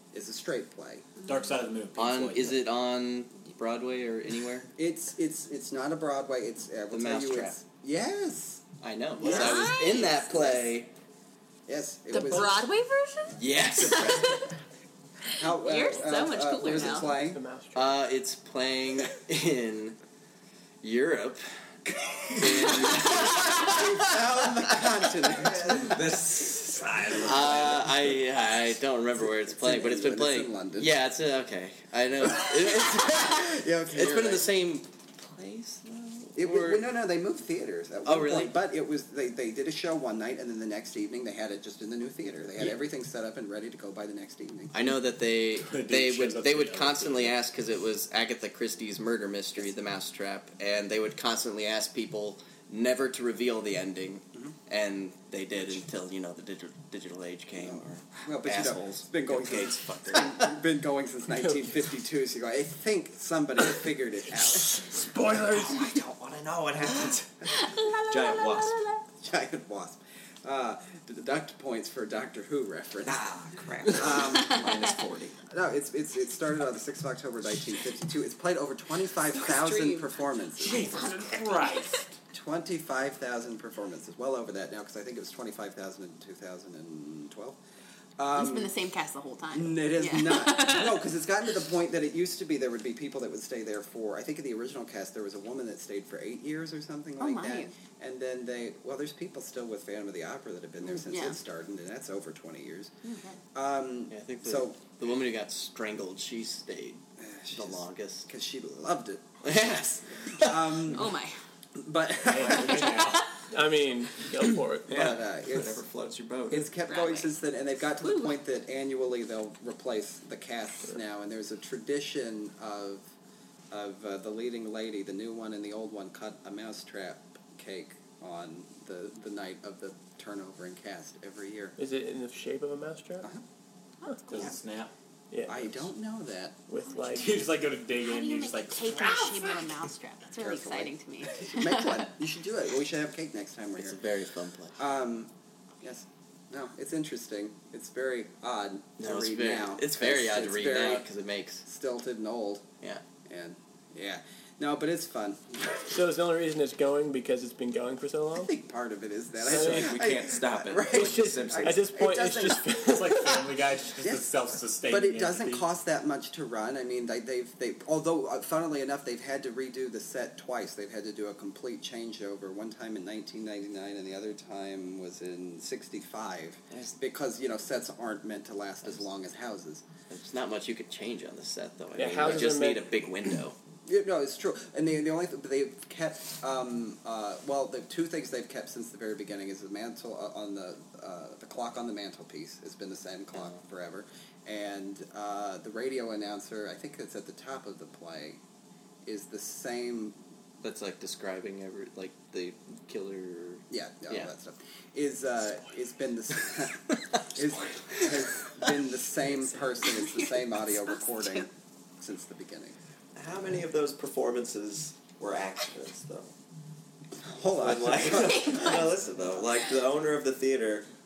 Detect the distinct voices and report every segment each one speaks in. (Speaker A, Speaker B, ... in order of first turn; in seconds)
Speaker A: 0.1-1.1, 4.8-8.6, 9.2-9.7, 11.7-12.6, 15.3-17.4, 22.7-26.2, 29.4-30.9, 32.3-34.5, 36.4-44.7, 57.6-65.0, 69.2-73.2, 73.9-74.7, 75.5-81.1, 82.3-87.6, 88.2-88.7, 89.5-102.9, 103.5-104.8, 107.2-111.1, 111.7-113.0, 114.9-115.8, 116.5-123.1, 123.7-131.7, 135.4-136.6, 140.4-144.0, 144.8-151.0, 151.6-152.6, 153.2-155.6, 158.3-163.3, 164.0-164.3, 164.8-179.8, 183.8-198.4, 199.0-200.2, 203.7-212.8, 217.2-218.9
Speaker B: 1.2-2.6, 45.6-47.4, 80.6-82.0, 112.2-113.2, 134.3-134.9, 137.1-139.3, 162.8-165.7
Speaker C: 1.9-4.7, 6.9-7.6, 8.8-10.9, 13.3-14.3, 17.7-19.9, 20.8-21.4, 22.4-24.1, 27.2-36.9, 38.0-38.5, 44.7-60.5, 104.1-107.0, 107.5-108.3, 109.4-110.7, 143.8-144.8, 149.0-151.6, 176.7-176.9, 180.1-183.6, 200.6-204.3
Speaker D: 9.2-10.6, 12.1-14.5, 15.3-17.1, 67.5-69.0, 79.3-81.9, 88.3-91.1, 97.2-97.7, 101.0-101.4, 103.0-103.4, 110.9-111.3, 116.9-117.3, 118.0-118.4, 134.0-134.5, 138.0-142.1, 209.9-210.3, 210.8-211.4, 218.2-218.9
Speaker E: 17.0-18.0, 64.9-65.8, 113.5-115.1, 131.8-133.3, 135.3-135.8, 136.7-137.3, 155.9-158.5, 159.5-159.9, 160.9-163.3, 181.9-182.8
Speaker F: 25.7-28.0, 65.3-68.8, 73.0-75.3, 114.9-116.7, 159.4-161.9, 213.1-216.3, 217.6-220.9